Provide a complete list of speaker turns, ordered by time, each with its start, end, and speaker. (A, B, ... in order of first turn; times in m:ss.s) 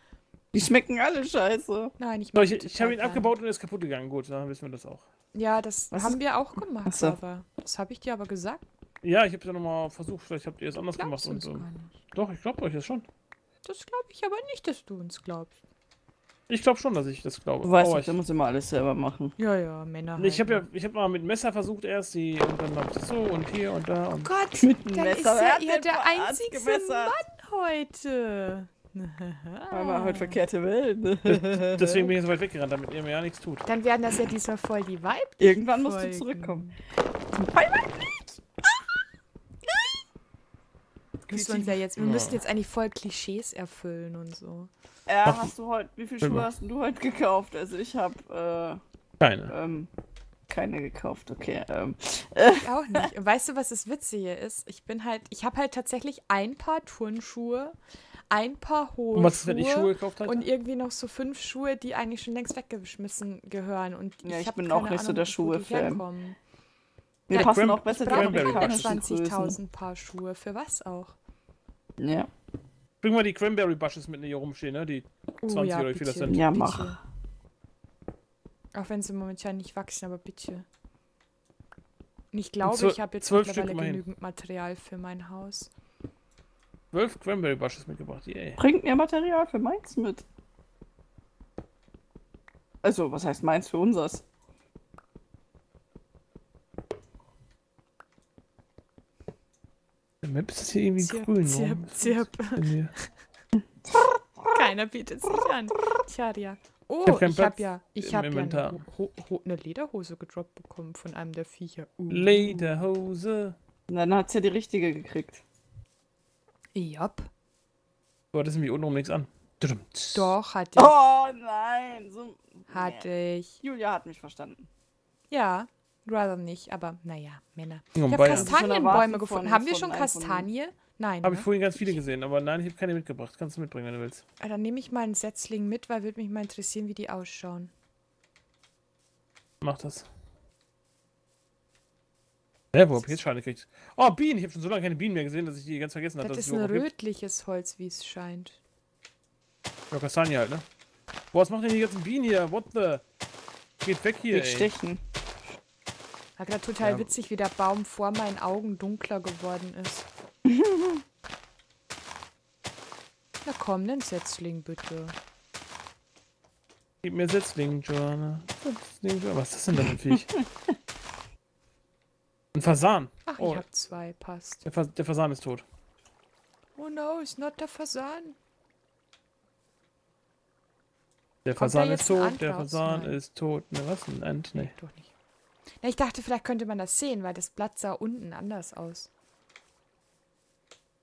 0:00.5-0:01.9 A
0:02.0-0:03.3 B
0:02.3-0:05.0 C
0:05.3-0:08.6 B
0:05.9-0:06.2 A
0:06.8-0:07.2 A
0:09.0-0:13.0 C
0:11.0-0:11.9 B
0:13.6-0:15.6 B
0:16.5-0:18.1 C
0:17.6-0:19.3 A
0:19.4-0:20.6 B
0:20.2-0:24.3 C
0:24.2-0:30.4 B
0:24.6-0:27.1 A
0:29.7-0:32.1 A
0:31.3-0:33.6 C
0:33.6-0:36.7 B
0:35.4-0:36.7 A
0:37.3-0:38.3 A
0:41.3-0:41.8 A
0:41.3-0:44.7 B
0:42.0-0:42.4 C
0:45.1-0:48.8 A
0:46.2-0:46.5 C
0:49.2-0:49.5 C
0:49.5-0:49.9 A
0:50.5-0:53.0 A
0:52.6-0:57.8 B
0:58.3-1:06.4 B
0:59.1-1:00.4 C
1:04.2-1:06.0 A
1:07.3-1:09.6 A
1:07.3-1:09.0 C
1:07.4-1:11.2 B
1:12.0-1:12.3 A
1:13.0-1:16.4 C
1:15.4-1:17.0 B
1:16.3-1:17.0 A
1:18.7-1:20.6 B
1:22.3-1:25.7 B
1:22.6-1:24.0 C
1:26.9-1:28.6 C
1:28.6-1:30.2 A
1:32.8-1:34.2 A
1:40.2-1:42.9 C
1:41.0-1:42.6 B
1:44.5-1:52.7 B
1:47.0-1:48.8 C
1:52.1-1:53.6 C
1:53.9-1:55.4 A
1:56.7-1:57.3 B
1:58.3-2:00.3 C
2:00.1-2:00.9 B
2:00.8-2:03.1 A
2:02.7-2:03.6 B
2:03.6-2:04.7 A
2:05.3-2:12.0 B
2:08.0-2:08.5 C
2:08.3-2:10.5 A
2:11.2-2:14.2 C
2:14.4-2:17.7 B
2:19.6-2:20.1 C
2:22.7-2:26.8 C
2:26.2-2:28.6 B
2:29.9-2:30.6 C
2:31.3-2:33.0 C
2:33.8-2:34.7 C
2:34.3-2:35.0 A
2:36.4-2:40.1 B
2:36.8-2:37.1 C
2:40.4-2:41.0 A
2:43.4-2:45.2 B
2:47.0-2:50.4 C
2:52.5-2:53.6 C
2:53.3-2:54.6 B
2:54.6-2:55.6 C
2:56.8-2:58.4 B
3:01.4-3:04.7 C
3:01.6-3:03.2 B
3:04.5-3:05.1 B
3:05.8-3:09.1 B